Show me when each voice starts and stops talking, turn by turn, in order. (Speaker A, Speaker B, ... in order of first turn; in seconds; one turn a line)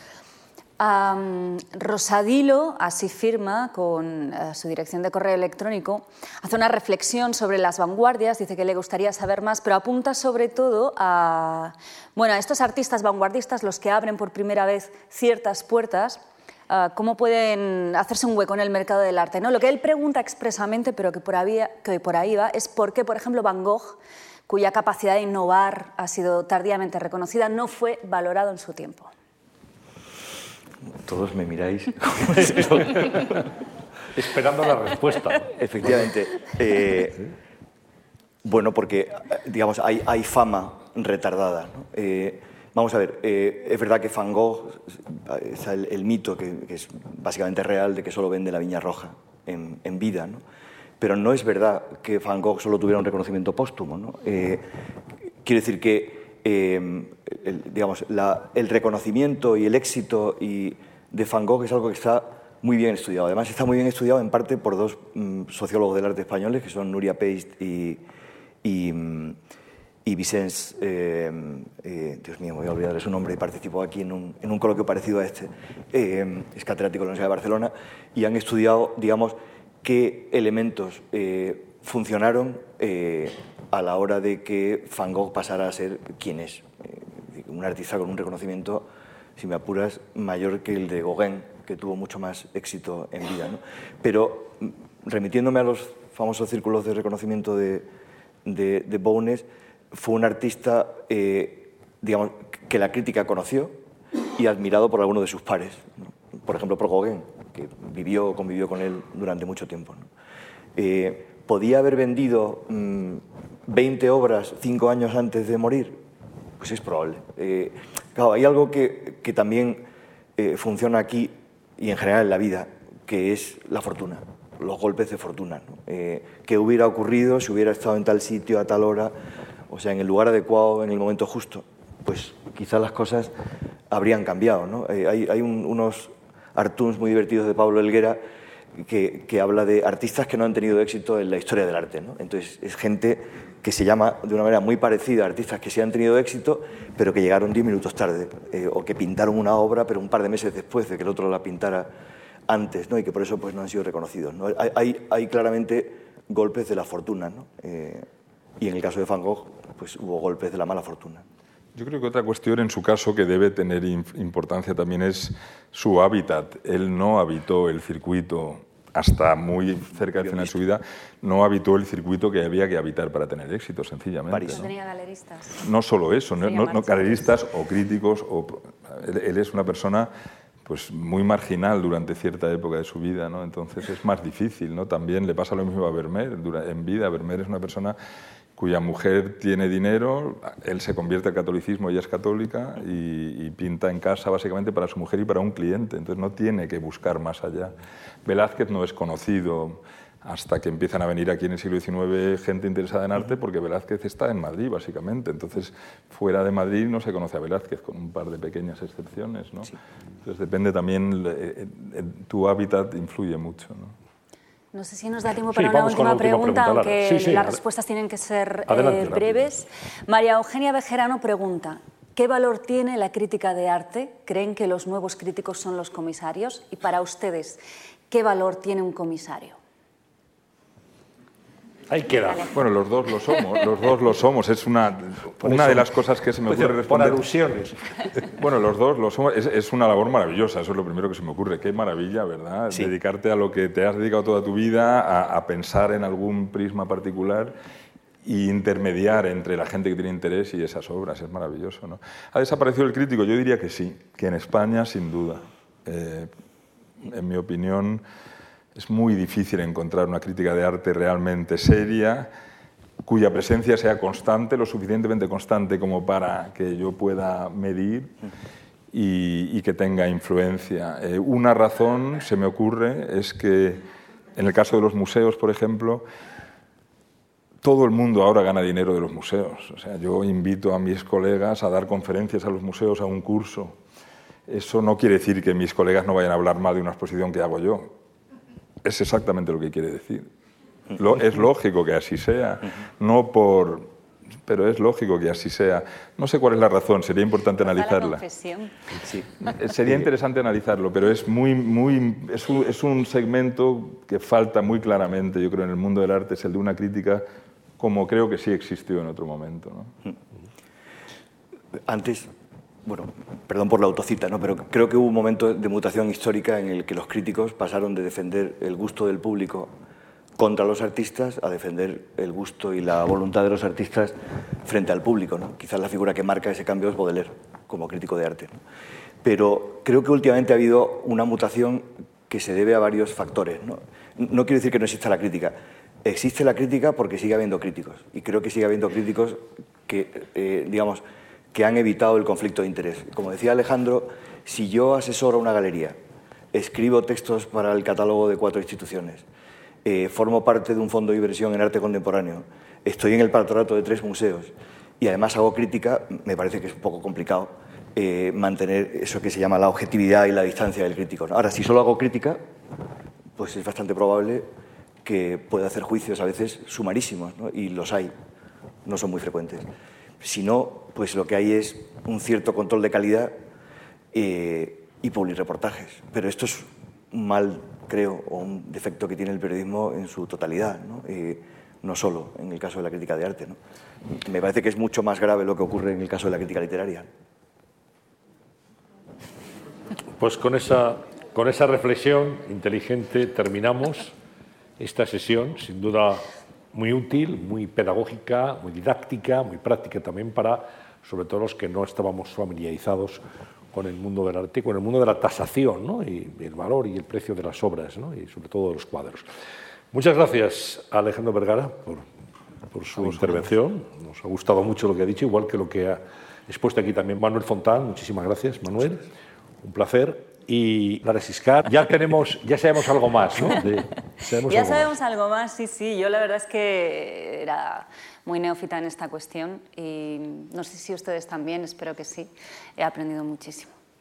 Speaker A: 0.8-29.1
Speaker B: 31.0-32.9
Speaker C: 32.4-33.2
Speaker C: 34.1-35.5
Speaker B: 35.5-37.2
Speaker B: 38.4-50.4
Speaker B: 51.0-54.6
Speaker B: 55.4-68.0
Speaker B: 68.6-69.4
Speaker B: 70.0-97.9
Speaker B: 98.4-103.8
Speaker B: 104.3-110.1
Speaker B: 110.8-116.0
Speaker B: 116.6-119.8
Speaker B: 120.4-129.1
Speaker B: 129.7-133.3
Speaker B: 133.9-138.2
Speaker B: 138.8-151.9
Speaker B: 152.5-158.1
Speaker B: 158.6-161.2
Speaker D: 161.7-174.7
Speaker B: 170.1-170.6
Speaker B: 174.3-174.7
Speaker A: 174.5-175.6
Speaker D: 175.6-180.1
Speaker A: 176.4-177.4
Speaker D: 180.6-187.9
Speaker D: 188.6-197.7
Speaker D: 198.2-213.9
Speaker A: 214.7-229.6
Speaker C: 215.5-217.6
Speaker C: 218.7-219.5
Speaker C: 231.9-232.5
Speaker D: 232.5-237.2
Speaker C: 235.4-235.9
Speaker C: 236.4-238.2
Speaker D: 238.3-247.5
Speaker D: 248.2-256.3
Speaker D: 257.0-258.0
Speaker D: 258.7-262.3
Speaker D: 263.0-268.1
Speaker D: 268.9-273.8
Speaker D: 274.3-276.0
Speaker D: 277.6-283.8
Speaker D: 284.5-287.9
Speaker D: 288.8-290.3
Speaker D: 290.9-293.9
Speaker D: 294.4-298.2
Speaker A: 297.6-298.7
Speaker D: 299.4-307.2
Speaker D: 307.8-309.9
Speaker B: 311.9-312.3
Speaker B: 312.8-319.7
Speaker B: 320.4-328.6
Speaker B: 329.2-345.9
Speaker B: 346.5-349.2
Speaker B: 349.8-362.4
Speaker B: 363.4-364.4
Speaker B: 365.0-368.1
Speaker B: 368.8-369.7
Speaker B: 370.2-373.3
Speaker B: 374.1-383.6
Speaker B: 384.2-387.1
Speaker C: 390.2-394.1
Speaker C: 394.8-403.2
Speaker C: 403.7-409.3
Speaker C: 409.9-412.0
Speaker C: 412.7-419.1
Speaker D: 413.0-413.4
Speaker C: 419.6-424.9
Speaker A: 424.5-433.7